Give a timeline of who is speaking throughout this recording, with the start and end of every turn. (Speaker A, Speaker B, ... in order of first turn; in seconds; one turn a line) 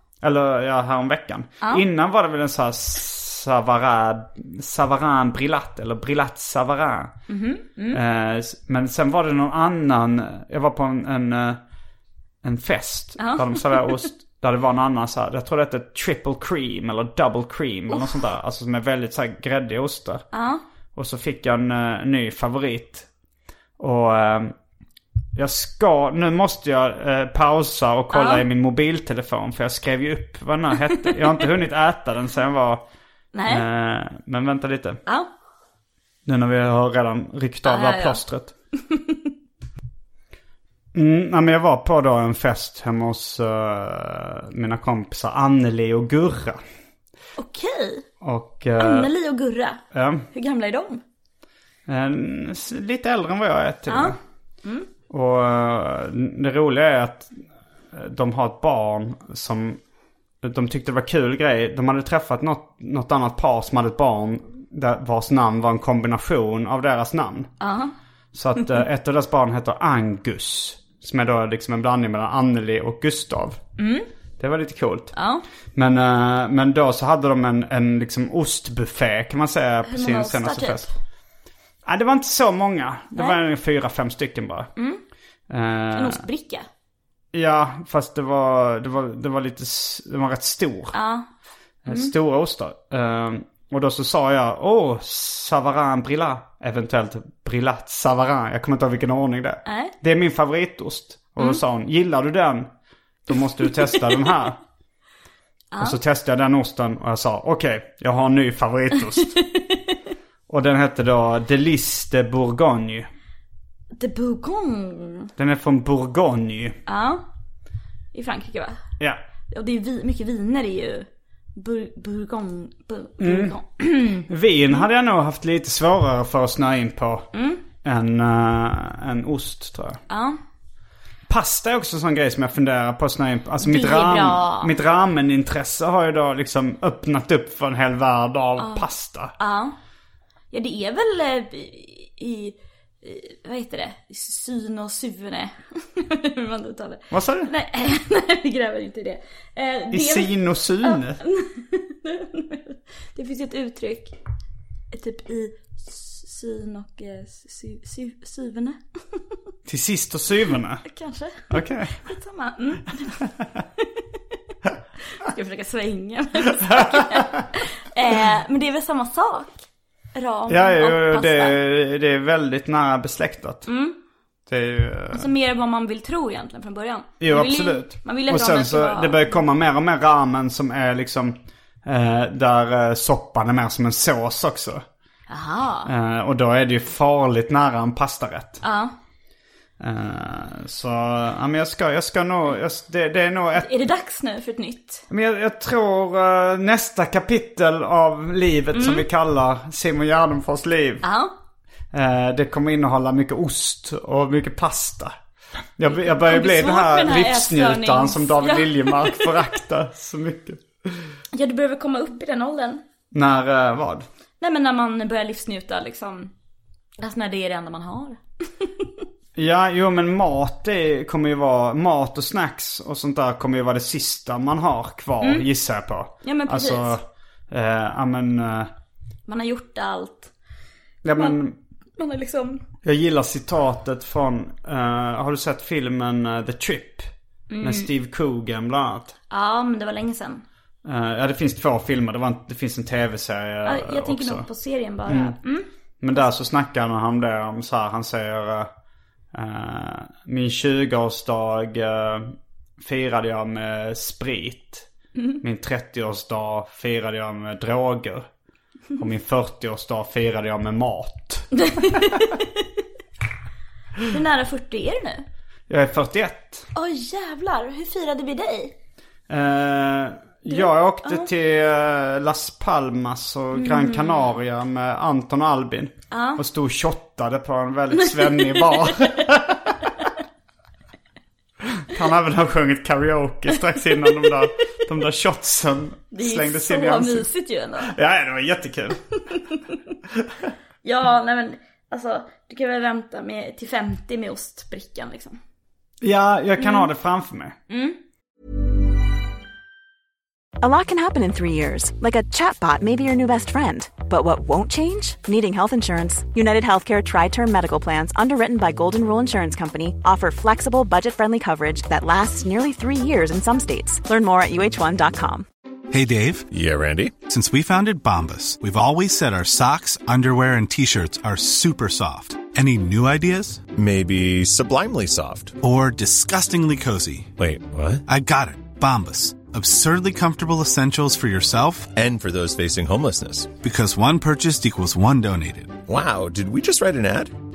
Speaker A: 0.2-7.1
Speaker B: 7.3-8.0
Speaker A: 7.9-11.6
Speaker A: 12.4-20.2
Speaker B: 13.2-14.1
Speaker B: 20.3-20.6
Speaker A: 20.9-23.1
Speaker A: 23.8-24.5
Speaker A: 25.3-32.8
Speaker B: 28.1-28.4
Speaker B: 33.3-33.6
Speaker A: 33.5-35.0
Speaker A: 36.2-38.5
Speaker B: 37.6-38.2
Speaker B: 38.8-39.2
Speaker A: 40.9-46.6
Speaker B: 47.4-48.0
Speaker A: 48.2-49.1
Speaker B: 48.8-49.8
Speaker A: 49.9-50.3
Speaker B: 50.3-51.0
Speaker A: 51.9-54.2
Speaker B: 53.9-54.9
Speaker A: 55.1-57.3
Speaker A: 57.9-59.8
Speaker A: 60.4-67.5
Speaker B: 67.6-67.9
Speaker A: 68.3-73.6
Speaker B: 73.8-74.1
Speaker A: 74.4-75.1
Speaker B: 75.1-75.4
Speaker A: 75.7-80.8
Speaker B: 79.8-80.9
Speaker A: 81.8-84.7
Speaker B: 84.8-85.0
Speaker A: 85.5-86.2
Speaker B: 85.9-86.7
Speaker A: 87.3-91.0
Speaker B: 90.9-91.3
Speaker A: 91.8-102.7
Speaker B: 91.9-92.1
Speaker B: 99.7-99.9
Speaker A: 103.3-104.6
Speaker B: 105.7-106.0
Speaker A: 105.8-109.4
Speaker A: 110.5-113.1
Speaker B: 114.0-115.3
Speaker A: 115.4-116.8
Speaker B: 116.9-117.2
Speaker B: 118.1-118.8
Speaker B: 119.5-124.8
Speaker A: 123.2-123.5
Speaker A: 124.3-127.3
Speaker B: 127.3-127.6
Speaker A: 127.8-130.0
Speaker B: 130.1-130.4
Speaker A: 131.3-139.3
Speaker B: 133.6-134.7
Speaker B: 138.6-139.8
Speaker B: 140.5-154.1
Speaker A: 147.1-147.5
Speaker A: 149.9-151.2
Speaker B: 154.9-158.8
Speaker A: 159.7-160.8
Speaker B: 160.9-163.2
Speaker A: 161.5-162.0
Speaker B: 165.1-169.6
Speaker A: 166.7-167.4
Speaker B: 170.1-171.6
Speaker A: 170.5-173.7
Speaker B: 173.7-174.0
Speaker A: 174.5-175.3
Speaker B: 175.1-179.4
Speaker A: 177.2-184.8
Speaker B: 185.3-185.9
Speaker A: 185.8-188.6
Speaker B: 188.6-188.9
Speaker A: 189.8-193.7
Speaker B: 193.5-195.0
Speaker A: 195.1-201.0
Speaker B: 198.7-199.1
Speaker B: 201.0-201.3
Speaker A: 201.9-205.1
Speaker A: 205.8-211.0
Speaker B: 205.9-209.3
Speaker B: 211.3-212.8
Speaker A: 213.1-214.1
Speaker B: 214.4-216.3
Speaker B: 217.0-218.9
Speaker A: 219.3-228.7
Speaker B: 225.2-225.4
Speaker B: 226.2-226.9
Speaker B: 229.3-230.3
Speaker A: 231.0-231.5
Speaker B: 232.0-232.6
Speaker A: 232.8-237.1
Speaker B: 237.5-237.9
Speaker A: 237.6-239.1
Speaker B: 239.3-240.4
Speaker A: 240.8-244.4
Speaker B: 243.6-245.7
Speaker A: 245.1-245.3
Speaker A: 246.0-248.7
Speaker A: 249.3-254.8
Speaker B: 255.2-255.4
Speaker A: 255.4-258.3
Speaker A: 259.0-262.1
Speaker B: 261.6-262.5
Speaker B: 264.1-265.2
Speaker A: 265.7-266.7
Speaker B: 266.7-268.7
Speaker A: 269.3-279.8
Speaker B: 270.5-271.3
Speaker B: 273.5-274.4
Speaker B: 276.1-276.4
Speaker B: 277.9-279.2
Speaker A: 281.7-287.3
Speaker B: 283.9-284.4
Speaker B: 286.1-287.9
Speaker A: 287.8-289.2
Speaker B: 290.8-295.4
Speaker A: 296.0-297.6
Speaker B: 296.6-296.9
Speaker B: 297.7-298.0
Speaker C: 300.6-315.4
Speaker D: 315.9-316.5
Speaker E: 316.5-317.2
Speaker D: 317.2-323.6
Speaker E: 323.7-325.6
Speaker D: 325.6-327.3
Speaker E: 327.4-328.0
Speaker D: 328.1-331.9
Speaker E: 331.9-333.6
Speaker D: 333.6-335.8
Speaker E: 335.9-337.3